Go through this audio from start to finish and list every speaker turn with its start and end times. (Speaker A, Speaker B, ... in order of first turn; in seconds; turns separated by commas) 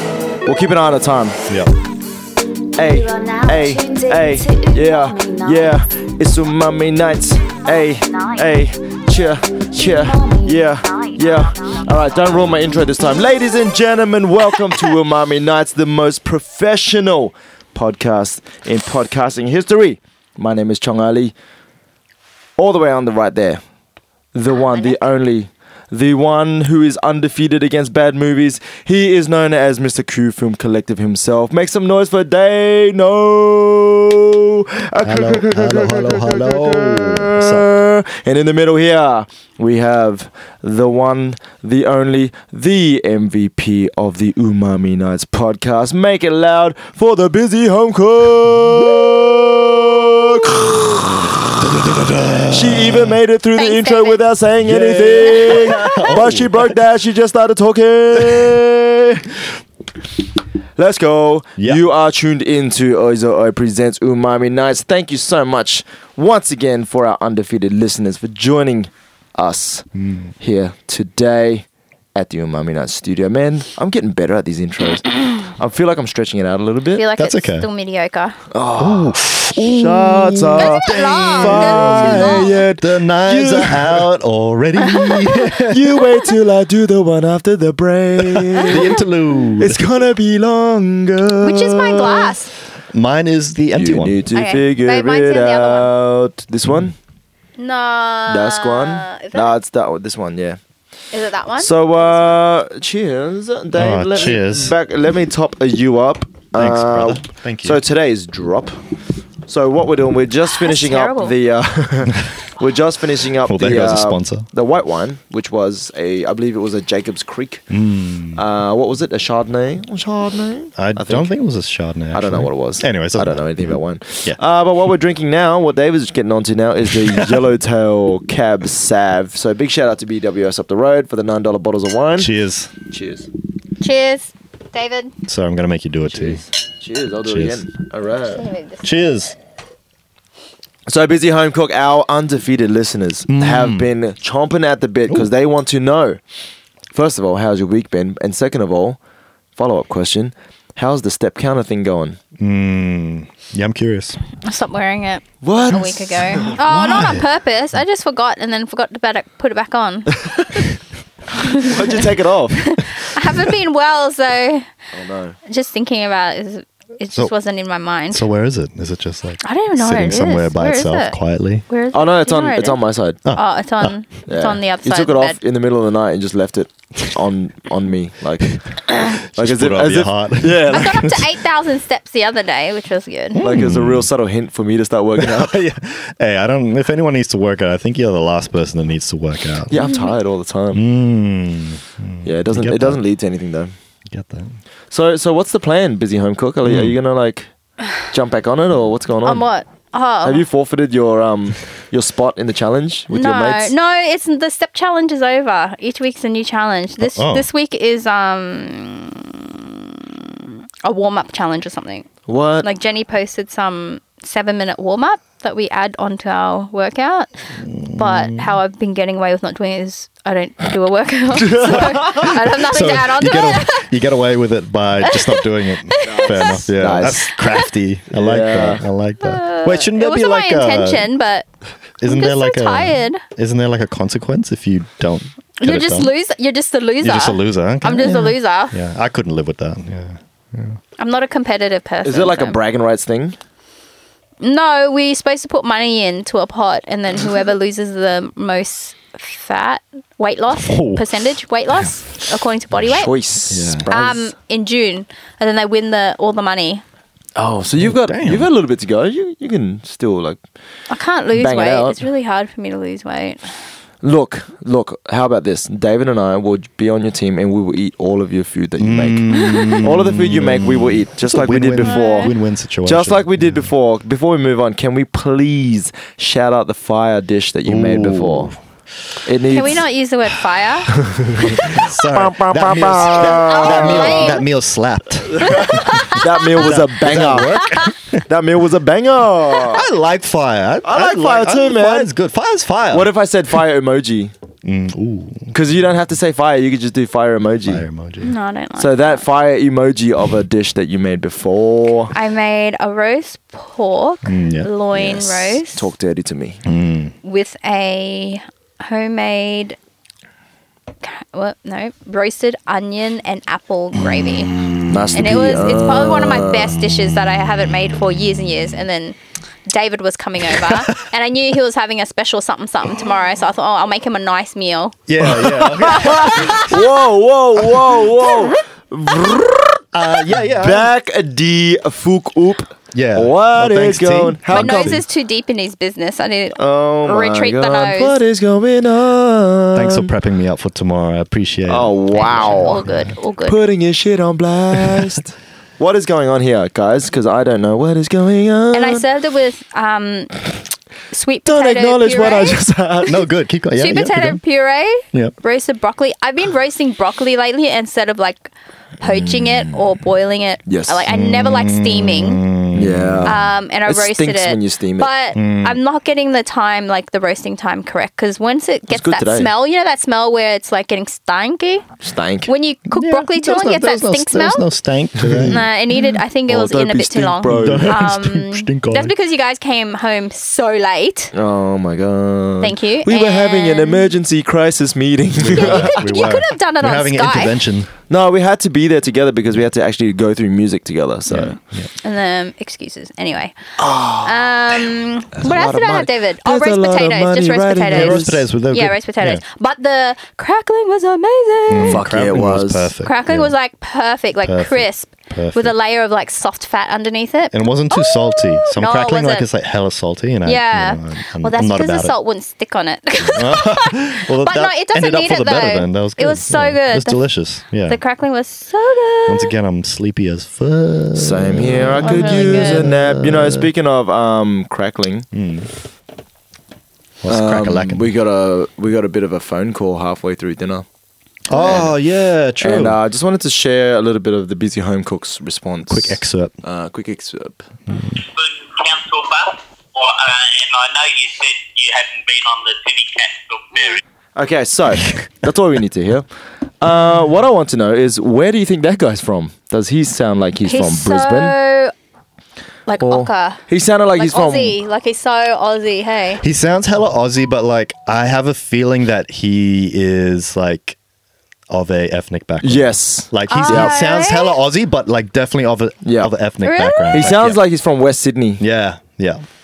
Speaker A: 0.4-1.4, Speaker B: 1.5-1.7, Speaker A: 2.8-21.3, Speaker C: 3.2-4.2, Speaker A: 22.6-23.6, Speaker A: 24.3-51.0, Speaker B: 35.0-37.7, Speaker B: 48.8-53.2, Speaker A: 52.5-59.4, Speaker D: 53.6-54.2, Speaker B: 54.6-56.7, Speaker D: 55.3-56.0, Speaker A: 60.8-69.9, Speaker B: 70.0-70.3, Speaker A: 70.4-77.0, Speaker D: 76.9-78.4, Speaker B: 77.2-77.7, Speaker A: 78.5-84.1, Speaker B: 78.8-86.0, Speaker D: 80.6-82.6, Speaker D: 84.9-85.5, Speaker A: 85.7-88.9, Speaker B: 88.3-89.8, Speaker A: 89.6-92.3, Speaker D: 91.4-92.5, Speaker B: 92.9-94.2, Speaker A: 93.8-97.0, Speaker D: 94.3-95.9, Speaker D: 97.6-99.5, Speaker A: 98.3-100.6, Speaker D: 101.1-102.1, Speaker A: 101.6-108.8, Speaker B: 103.8-104.8, Speaker B: 106.5-107.8, Speaker A: 109.5-117.7, Speaker D: 110.5-111.3, Speaker B: 113.5-114.5, Speaker B: 117.7-118.4, Speaker A: 118.3-121.3, Speaker B: 120.8-124.4, Speaker A: 122.1-132.3, Speaker B: 126.9-127.4, Speaker B: 132.2-132.7, Speaker A: 132.8-133.3, Speaker D: 133.8-135.1, Speaker B: 135.3-136.4, Speaker A: 136.1-138.4, Speaker B: 137.2-137.6, Speaker D: 138.2-138.9, Speaker B: 138.8-139.3, Speaker A: 140.9-146.2, Speaker B: 143.3-143.9, Speaker A: 146.9-149.0, Speaker A: 149.6-152.2, Speaker B: 152.4-154.2, Speaker D: 154.4-160.2, Speaker A: 155.4-156.6, Speaker B: 156.6-157.3, Speaker A: 160.2-160.6, Speaker D: 161.3-162.0, Speaker A: 161.5-162.8, Speaker D: 162.6-164.7, Speaker A: 164.9-165.3, Speaker D: 165.4-168.2, Speaker B: 168.1-171.7, Speaker D: 169.4-172.8, Speaker A: 171.9-173.2, Speaker B: 173.2-173.9, Speaker D: 173.3-175.4, Speaker A: 174.3-181.1, Speaker B: 179.3-181.2, Speaker D: 180.7-183.5, Speaker B: 183.3-184.1, Speaker A: 183.4-185.6, Speaker B: 185.2-189.8, Speaker A: 189.7-190.8, Speaker B: 190.7-193.0, Speaker A: 192.2-193.7, Speaker B: 194.1-194.6, Speaker A: 194.9-197.5, Speaker B: 196.6-196.9, Speaker A: 198.0-199.4, Speaker D: 199.2-200.4, Speaker A: 200.2-203.7, Speaker D: 203.1-212.1, Speaker B: 207.0-207.4, Speaker A: 212.3-212.7, Speaker D: 212.6-217.3, Speaker B: 217.6-218.5, Speaker D: 217.9-223.9, Speaker A: 221.4-222.3, Speaker B: 222.1-231.1, Speaker D: 225.0-226.7, Speaker A: 226.0-227.4, Speaker D: 227.3-227.7, Speaker A: 228.1-228.8, Speaker D: 229.2-231.4, Speaker B: 232.0-236.1, Speaker D: 232.0-233.2, Speaker D: 235.6-238.7, Speaker B: 237.0-240.8, Speaker D: 241.0-242.6, Speaker A: 242.0-243.4, Speaker D: 244.4-253.1, Speaker B: 250.7-251.0, Speaker A: 252.9-254.3, Speaker B: 253.5-253.9, Speaker D: 253.8-256.8, Speaker A: 257.4-260.4, Speaker B: 257.8-258.5, Speaker D: 260.9-263.5, Speaker A: 261.4-262.0, Speaker A: 264.0-278.5, Speaker B: 268.8-273.7, Speaker D: 269.3-269.8, Speaker D: 271.9-272.3, Speaker B: 277.6-278.6, Speaker A: 279.2-279.8, Speaker D: 279.5-280.9, Speaker A: 280.9-284.4, Speaker B: 281.4-288.2, Speaker D: 283.0-284.4, Speaker A: 285.3-289.9, Speaker D: 285.4-286.6, Speaker D: 287.6-287.9, Speaker B: 289.7-293.1, Speaker A: 290.8-292.1, Speaker A: 292.9-294.3, Speaker B: 294.6-295.5, Speaker A: 295.5-297.8, Speaker B: 297.6-298.3, Speaker D: 298.2-299.2, Speaker A: 298.8-302.1, Speaker D: 302.1-305.9, Speaker B: 304.2-304.7, Speaker A: 304.9-306.6, Speaker B: 306.6-307.1, Speaker D: 307.2-309.8, Speaker D: 311.0-314.5, Speaker B: 314.0-315.3, Speaker A: 314.9-316.7, Speaker D: 315.1-319.1, Speaker D: 319.7-324.9, Speaker B: 325.1-326.8, Speaker A: 325.2-335.0, Speaker D: 326.3-326.6, Speaker B: 329.9-330.9, Speaker B: 332.9-335.0, Speaker D: 334.5-338.2, Speaker A: 336.6-340.1, Speaker B: 339.7-343.1, Speaker A: 341.7-342.8, Speaker D: 342.1-343.6, Speaker A: 343.4-349.0, Speaker D: 348.7-350.4, Speaker D: 351.1-352.6, Speaker A: 351.4-353.2, Speaker B: 353.1-354.4, Speaker D: 353.7-362.4, Speaker A: 359.1-359.8, Speaker A: 360.6-361.0, Speaker B: 361.1-363.4, Speaker A: 362.7-365.1, Speaker D: 363.2-371.9, Speaker B: 365.3-365.8, Speaker A: 368.9-369.5, Speaker A: 372.0-372.5, Speaker D: 372.5-374.7, Speaker B: 372.9-375.6, Speaker A: 375.3-375.5, Speaker D: 375.4-381.3, Speaker A: 376.5-377.9, Speaker B: 377.4-379.1, Speaker A: 381.3-386.1, Speaker D: 382.6-384.1, Speaker B: 385.4-387.9, Speaker D: 385.6-387.6, Speaker A: 388.1-391.5, Speaker B: 391.3-391.9, Speaker D: 391.3-393.6, Speaker A: 393.8-394.8, Speaker D: 394.2-402.1, Speaker A: 395.4-398.5, Speaker B: 397.9-399.4, Speaker B: 401.7-403.5, Speaker A: 401.8-402.9, Speaker D: 403.0-409.5, Speaker B: 404.4-405.7, Speaker B: 407.5-412.1, Speaker D: 410.4-417.2, Speaker B: 413.2-418.0, Speaker D: 417.9-419.5, Speaker B: 419.3-423.7, Speaker A: 421.1-425.3, Speaker D: 422.0-422.9, Speaker B: 425.3-425.7, Speaker B: 427.2-428.1, Speaker A: 427.3-430.9, Speaker D: 431.5-431.9, Speaker B: 431.5-433.0, Speaker A: 431.6-431.9, Speaker A: 432.6-437.6, Speaker B: 435.9-436.5, Speaker B: 437.9-438.2, Speaker C: 438.1-444.0, Speaker A: 444.3-446.3, Speaker A: 446.8-451.6, Speaker D: 450.6-451.9, Speaker D: 452.9-453.6, Speaker A: 453.0-454.8, Speaker D: 454.1-456.4, Speaker B: 456.4-461.0, Speaker B: 461.7-467.6, Speaker A: 462.6-463.9, Speaker D: 463.5-464.6, Speaker A: 466.0-466.3, Speaker D: 466.6-467.3, Speaker A: 467.1-468.6, Speaker B: 468.6-469.4